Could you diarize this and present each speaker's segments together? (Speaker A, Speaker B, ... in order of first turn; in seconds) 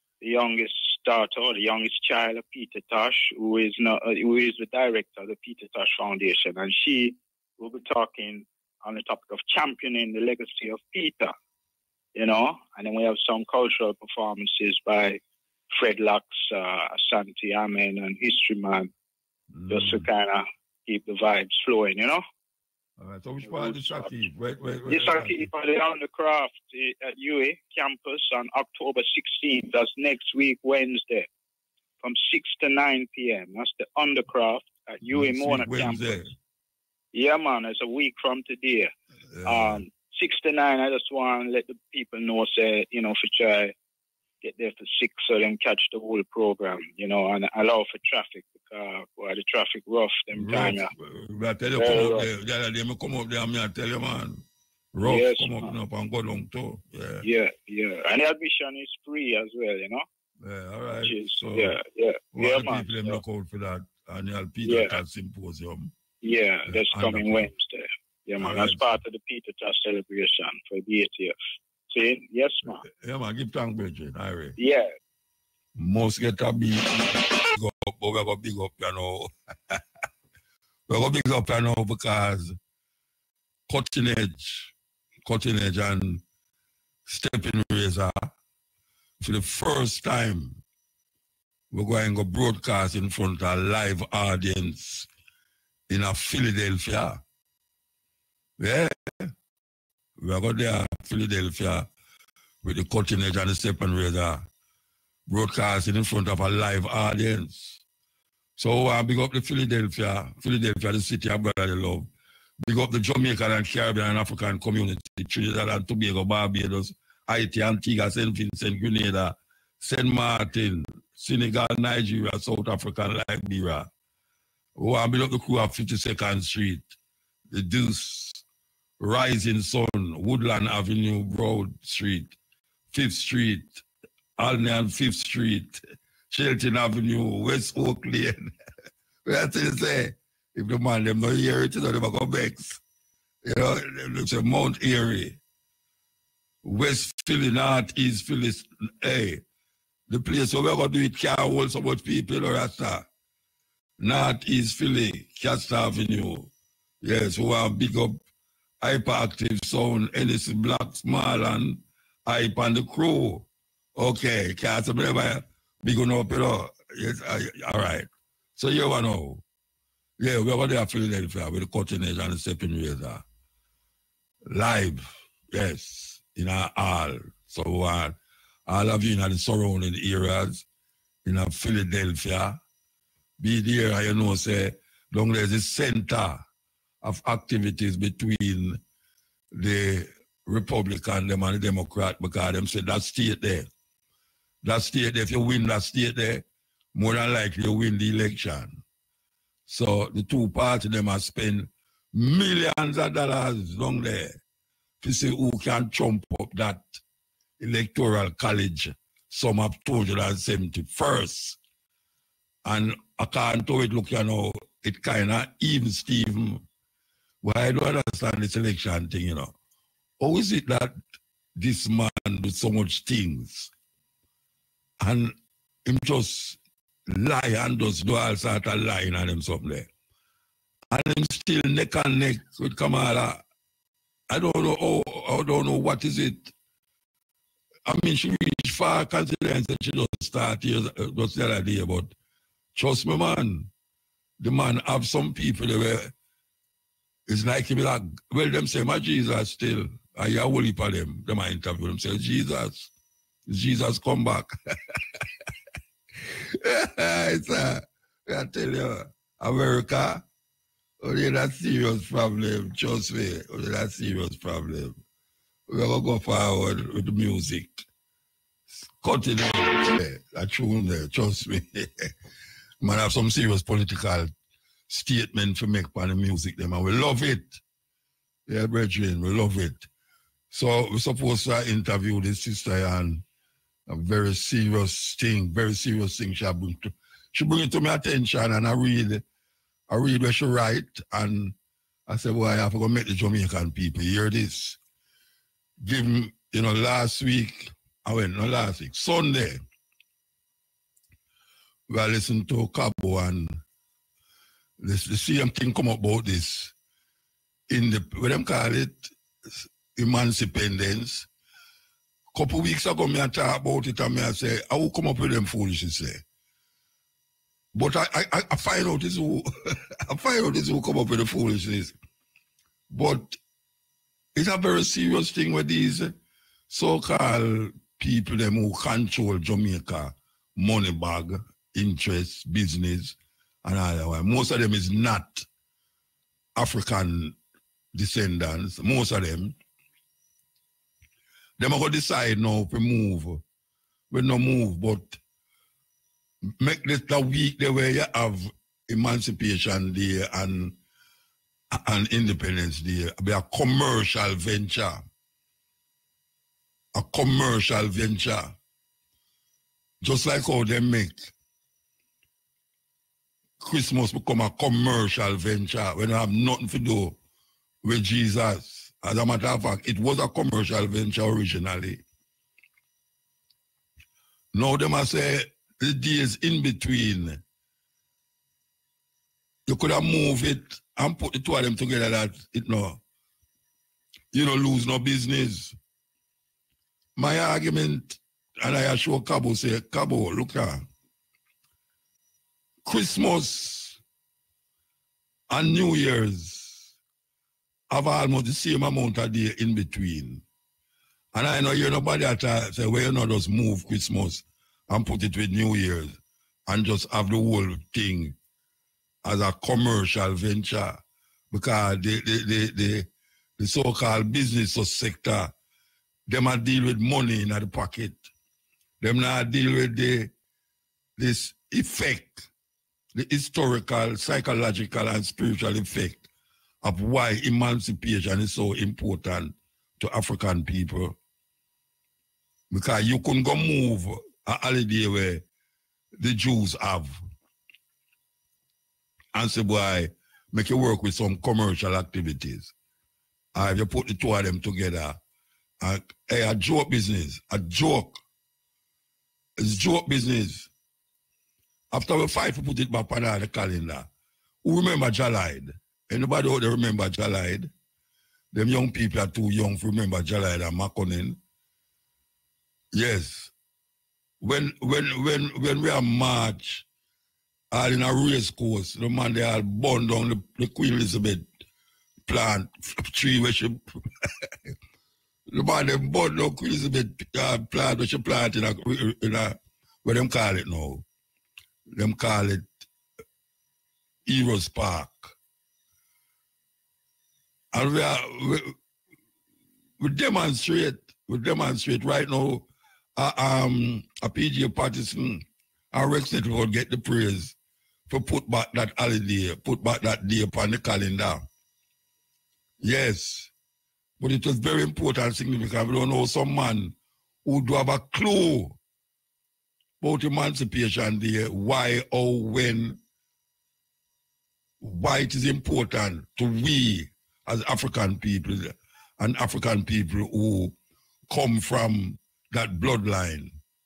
Speaker A: 0.2-11.3, 12.1-15.2, 15.7-18.9, 19.7-22.2, 23.4-24.1, 24.9-31.3, 32.0-36.2, 37.1-38.9, 39.4-43.7, 44.4-50.9, 51.8-52.3, 55.0-55.7, 57.2-60.0, 61.0-63.2, 64.7-65.0, 66.2-71.3, 71.9-72.8, 74.6-74.9
Speaker B: 19.5-20.0, 23.0-25.5, 35.1-36.3, 39.3-39.8, 50.4-54.4, 54.9-57.2, 60.4-61.7, 62.3-65.9, 66.7-67.5, 68.4-68.9, 72.6-74.5, 75.8-79.8, 80.9-82.5, 83.7-84.7, 85.2-86.2, 87.0-88.3, 89.2-90.6, 91.7-95.1, 95.9-97.2, 98.6-99.3, 100.2-101.9, 102.6-104.5, 105.3-107.8, 108.6-112.1, 112.6-123.9, 124.8-126.9, 127.5-128.4, 129.0-132.3, 132.9-133.8, 134.4-138.5, 139.2-142.8, 143.4-145.4, 146.6-149.4, 150.1-153.1, 154.0-156.5, 157.0-158.2, 158.8-169.4, 170.2-173.2, 174.4-178.2, 178.7-180.6, 181.2-182.6, 183.4-186.4, 187.0-188.8, 189.5-193.7, 194.6-198.8, 199.7-204.4, 205.0-207.0, 207.6-211.6, 212.6-216.6, 217.4-219.5, 220.2-221.0, 221.6-223.7, 225.0-229.9, 230.9-233.4, 234.3-236.5, 237.8-242.1, 242.7-243.7, 244.4-246.1, 247.3-252.9, 253.5-255.0, 256.2-260.2, 261.0-264.9, 265.7-267.8, 268.8-272.1, 272.8-274.3, 274.9-277.6, 278.5-279.9, 280.5-283.2, 283.9-289.2, 289.9-291.5, 292.1-294.8, 295.8-299.6, 301.9-303.6, 304.8-306.7, 307.7-311.3, 312.3-316.2, 317.7-321.9, 322.9-323.4, 324.3-326.1, 326.7-335.4, 336.5-337.4, 337.9-339.5, 341.6-343.4, 344.1-345.2, 346.6-350.8, 351.7-355.0, 356.9-358.5, 360.0-361.3, 363.6-367.1, 367.8-372.0, 374.5-377.4, 379.6-383.0, 384.3-385.8, 387.1-390.9, 392.8-394.0, 395.5-396.9, 397.9-400.4, 401.3-408.4, 409.2-411.0, 411.5-413.1, 413.6-415.5, 416.3-418.3, 419.0-420.3, 421.2-422.4, 423.1-426.2, 426.8-431.1, 432.7-435.4, 436.1-437.2, 439.3-442.7, 443.5-445.2, 445.8-448.2, 449.6-450.7, 451.9-454.1, 454.6-457.7, 458.5-461.4, 462.9-463.5, 464.4-466.8, 467.7-471.5, 472.2-474.7, 475.5-481.0, 481.9-482.7, 484.2-485.3, 487.7-488.7, 490.0-497.5, 498.1-501.5, 502.8-503.5, 504.2-508.8, 510.0-513.0, 514.8-520.7, 521.3-523.6